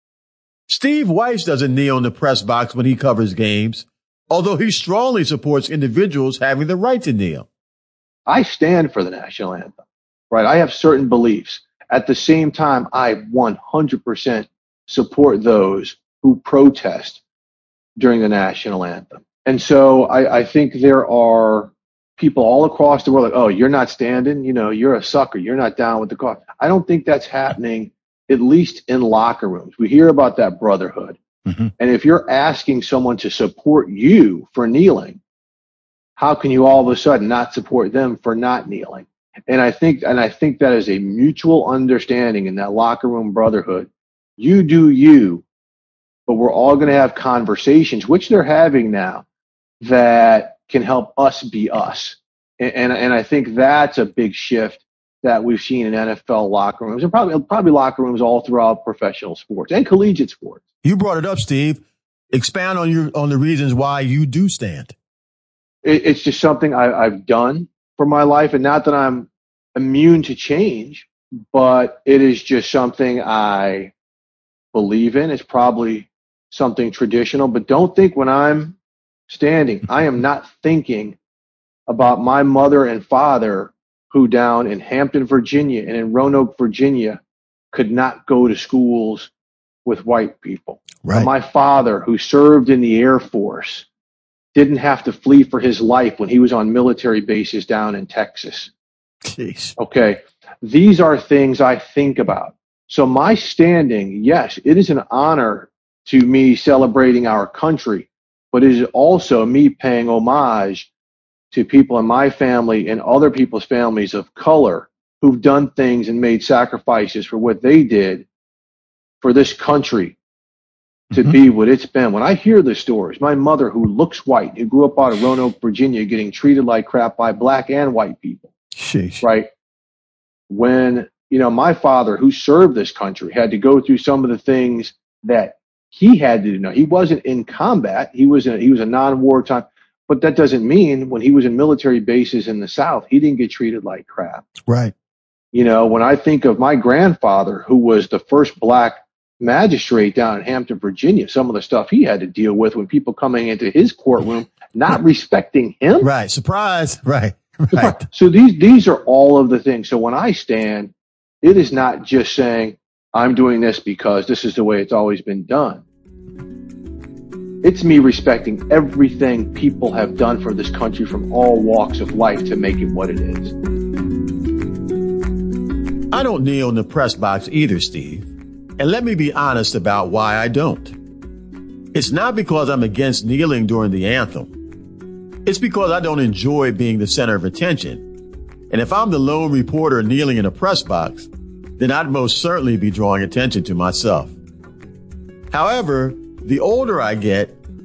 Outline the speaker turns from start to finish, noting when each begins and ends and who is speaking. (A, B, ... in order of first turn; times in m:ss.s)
0:00.7-0:07.4 A
0:08.2-0:17.2 B
0:18.0-0:31.2 B
0:31.8-0:35.2 B
0:36.2-0:45.4 B
0:46.3-0:49.2 B
0:49.8-1:00.6 B
1:00.8-1:04.9 A
1:05.8-1:13.9 B
1:14.7-1:18.8 B
1:19.3-1:21.2 B
1:21.9-1:27.2 B
1:27.7-1:29.3 B
1:29.8-1:33.8 B
1:31.0-1:31.3 A
1:34.5-1:38.7 B
1:39.2-1:39.8 A
1:39.8-1:50.9 B
1:51.5-1:58.2 B
1:59.2-2:00.2 B
2:01.1-2:08.5 B
2:08.8-2:09.2 A
2:09.2-2:09.5 B
2:10.5-2:24.5 B
2:24.7-2:24.9 A
2:25.5-2:36.1 B
2:36.0-2:38.0 A
2:38.0-2:45.8 B
2:47.6-2:53.5 B
2:56.1-3:00.9 A
3:01.9-3:04.5 A
3:05.4-3:08.0 A
3:08.7-3:11.3 A
3:11.8-3:14.3 A
3:15.5-3:17.6 A